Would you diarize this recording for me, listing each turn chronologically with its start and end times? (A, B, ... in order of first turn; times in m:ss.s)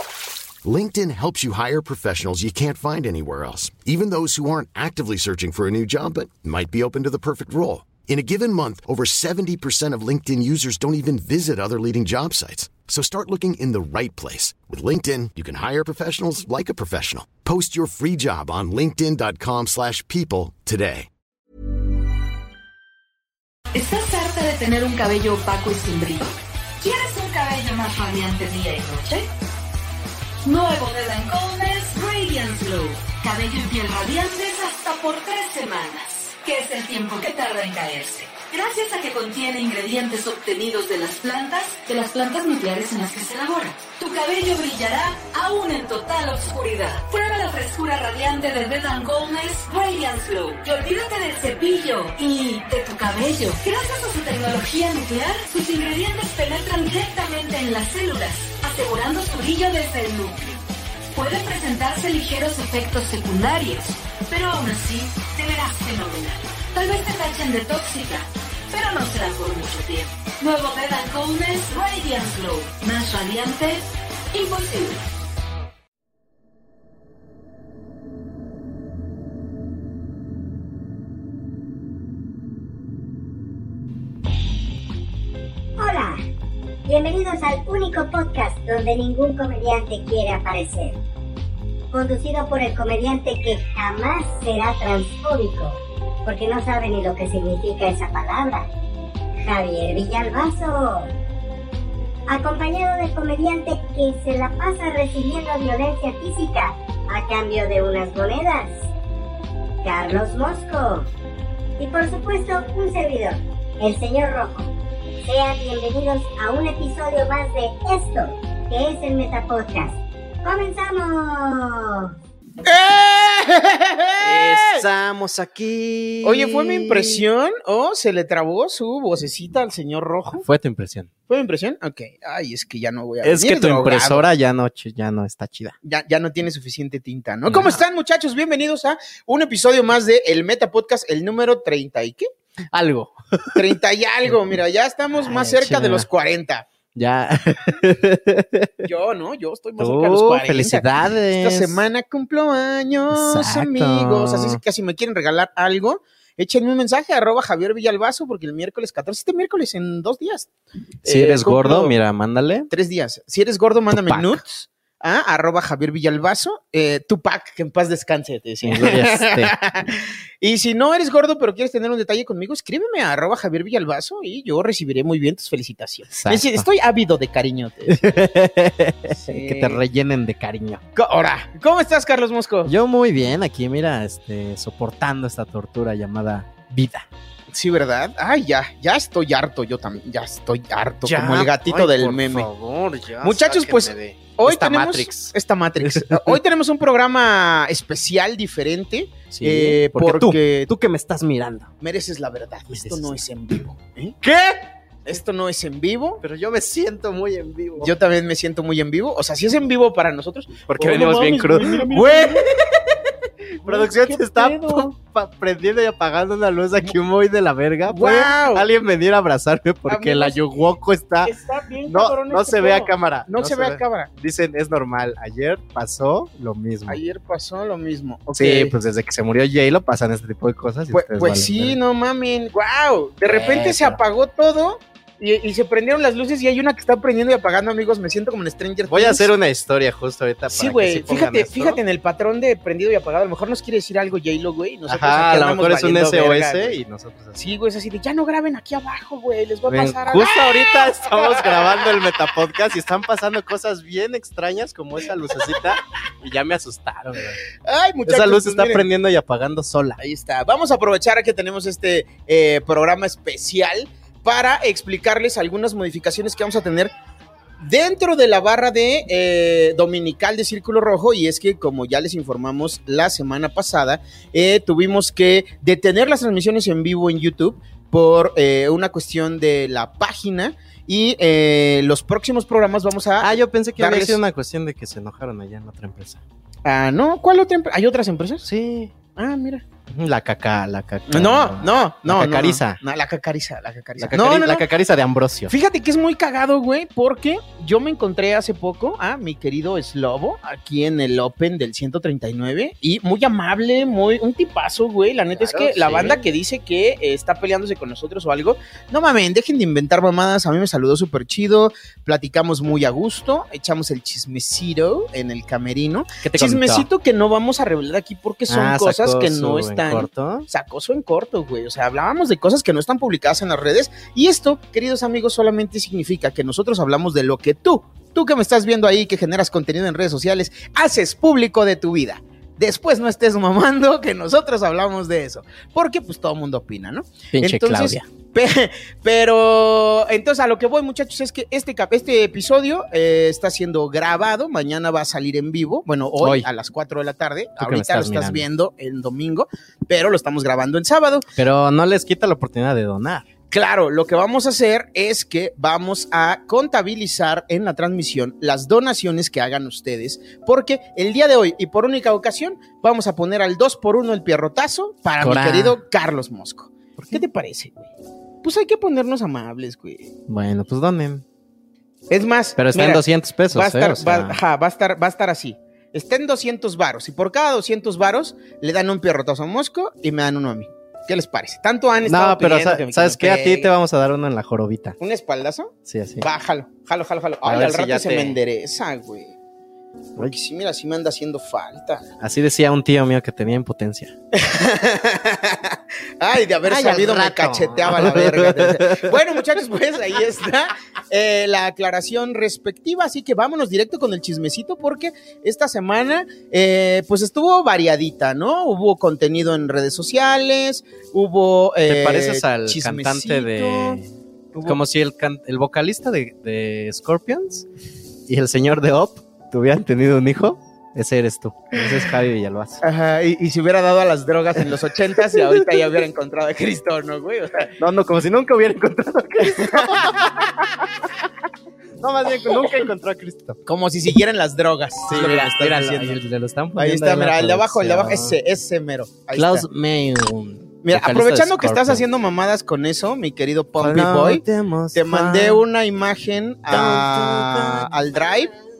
0:00.6-0:21.1 A
0:23.7-0:29.3 B
0:30.4-1:00.6 B
1:01.1-1:15.1 B
1:25.8-1:26.2 C
1:26.9-1:31.0 C
1:31.9-1:38.7 C
1:39.4-1:41.1 C
1:42.3-1:48.8 C
1:49.8-1:51.1 C
1:51.8-1:54.7 C
1:55.2-2:02.1 C
2:02.6-2:04.8 D
2:04.2-2:07.2 E
2:06.2-2:10.4 D
2:10.4-2:11.1 E
2:11.3-2:14.3 D
2:13.2-2:15.8 E
2:15.8-2:22.3 D
2:17.5-2:17.8 E
2:22.7-2:23.6 E
2:23.5-2:26.7 D
2:25.2-2:26.1 E
2:26.9-2:28.7 E
2:28.8-2:40.5 D
2:29.8-2:31.8 E
2:33.1-2:34.6 E
2:41.0-2:42.0 D
2:41.0-2:42.7 E
2:42.7-2:58.2 D
2:43.9-2:44.4 E
2:48.6-2:49.5 E
2:56.1-2:56.7 E
2:57.9-3:00.8 E
2:59.1-2:59.8 D
3:00.9-3:02.8 D
3:02.6-3:07.1 E
3:07.5-3:12.5 D
3:11.0-3:15.3 E
3:13.2-3:20.7 D
3:15.8-3:16.3 E
3:19.3-3:21.7 E
3:21.8-3:24.2 D
3:22.7-3:23.2 E
3:24.2-3:24.6 E
3:25.0-3:26.2 D
3:26.2-3:27.9 E
3:27.8-3:32.5 D
3:30.7-3:33.0 E
3:33.6-3:35.0 D
3:33.6-3:41.3 E
3:37.8-3:38.6 D
3:39.9-3:40.7 D
3:41.2-3:44.1 D
3:41.9-3:47.0 E
3:46.9-3:48.8 D
3:48.3-3:51.8 E
3:50.9-3:59.3 D
3:53.2-3:54.0 E
3:58.9-4:01.8 E
4:00.5-4:06.8 D
4:04.9-4:07.4 E
4:07.4-4:12.1 D
4:09.7-4:17.4 E
4:15.2-4:15.6 D
4:17.6-4:18.9 D
4:18.0-4:20.0 E
4:20.0-4:26.9 D
4:27.6-4:44.2 D
4:43.2-4:46.2 E
4:46.6-4:48.4 D
4:48.4-4:48.9 E
4:49.2-4:49.6 D
4:49.9-4:52.8 E
4:51.1-4:54.7 D
4:54.0-4:55.5 E
4:55.5-5:51.3 D
5:05.3-5:06.2 E
5:16.2-5:16.9 E
5:18.5-5:20.5 E
5:37.3-5:38.0 E
5:46.2-5:46.5 E
5:47.6-5:48.4 E
5:51.4-5:53.2 E
5:53.5-6:07.9 D
6:05.2-6:05.8 E
6:07.0-6:07.2 E
6:08.4-6:10.1 D
6:10.3-6:11.2 E
6:12.1-6:23.7 D
6:12.6-6:14.4 E
6:22.0-6:25.0 E
6:25.0-6:29.4 D
6:25.8-6:26.2 E
6:27.4-6:28.4 E
6:30.2-6:32.0 D
6:32.2-6:34.1 E
6:34.3-6:54.0 D
6:36.6-6:39.2 E
6:51.8-6:54.1 E
6:54.5-6:54.8 D
6:54.6-6:57.7 E
6:58.3-7:02.8 E
7:02.8-7:07.7 D
7:07.8-7:10.9 E
7:09.4-7:10.4 D
7:12.0-7:13.6 E
7:12.4-7:12.8 D
7:13.6-7:16.2 D
7:15.1-7:18.4 E
7:16.8-7:19.7 D
7:19.3-7:22.0 E
7:20.8-7:28.5 D
7:23.8-7:25.6 E
7:26.7-7:28.3 E